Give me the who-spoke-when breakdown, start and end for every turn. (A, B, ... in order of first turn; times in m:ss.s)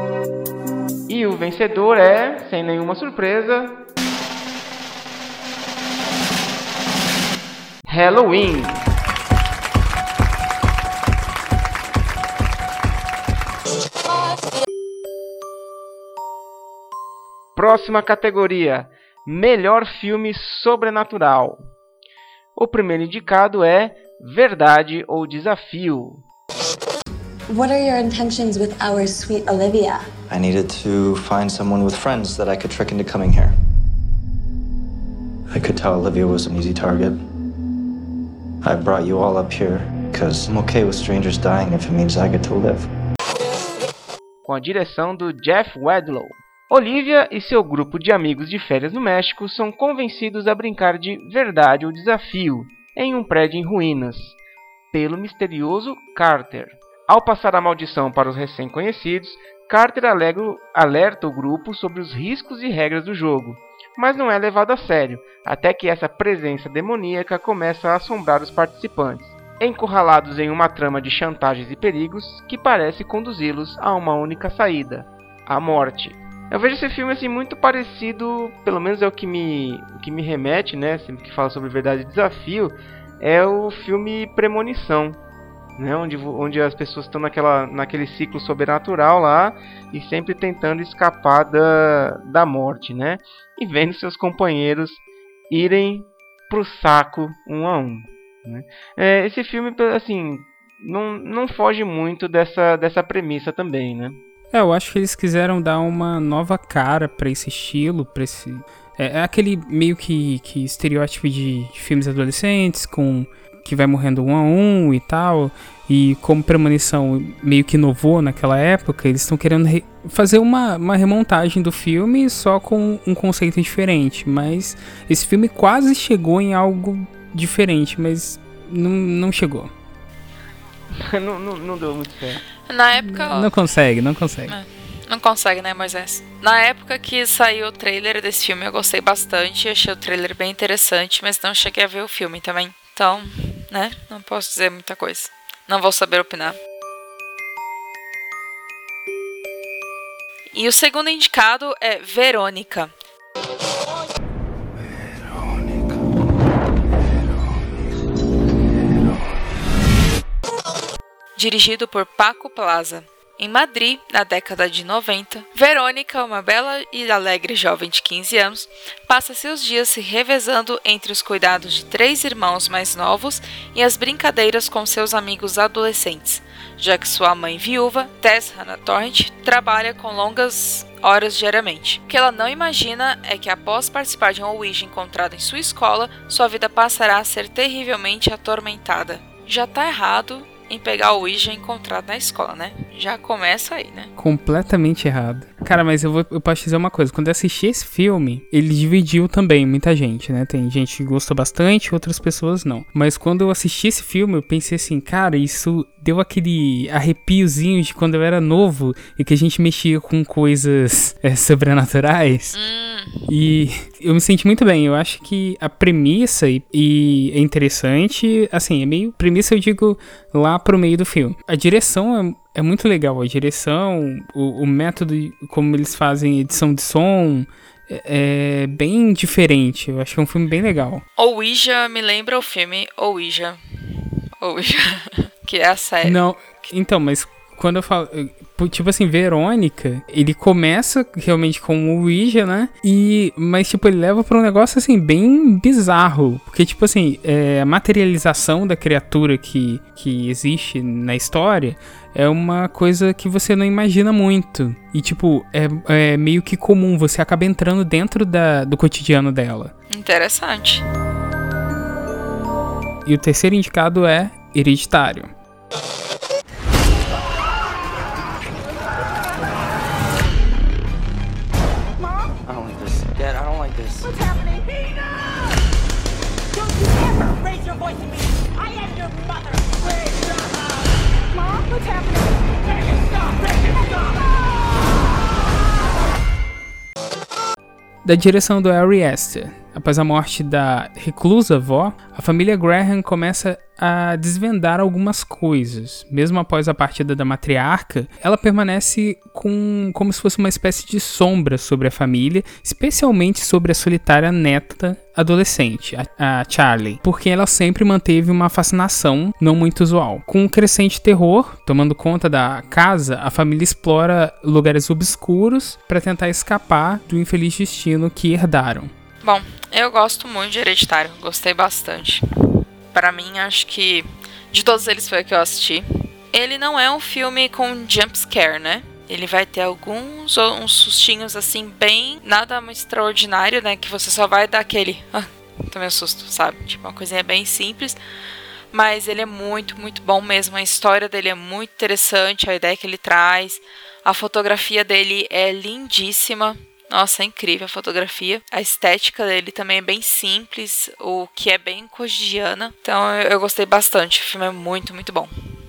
0:01.1-0:03.8 A
0:07.9-0:08.9 A
0:17.6-0:21.7 A
0:22.6-0:26.2 A
0:27.5-0:30.0 B
0:30.3-0:33.5 C
0:35.5-0:37.2 C
0:38.6-0:42.9 C
0:44.4-0:54.4 A
0:54.9-1:25.2 A
1:25.8-1:44.2 A
1:44.5-2:09.7 D
2:10.9-2:12.4 A
2:12.7-2:13.5 E
2:13.0-2:14.6 D
2:14.5-2:26.6 E
2:30.5-2:32.9 E
2:41.4-3:14.1 E
3:14.2-3:32.6 D
3:32.5-3:33.3 E
3:33.3-3:51.0 D
3:51.2-3:53.6 E
3:54.4-3:56.2 E
3:56.0-4:19.7 D
4:19.9-4:20.8 E
4:23.0-4:25.3 D
4:32.5-4:34.0 C
4:48.0-5:18.9 D
5:19.2-5:22.2 E
5:22.9-5:38.0 E
5:38.7-5:55.3 E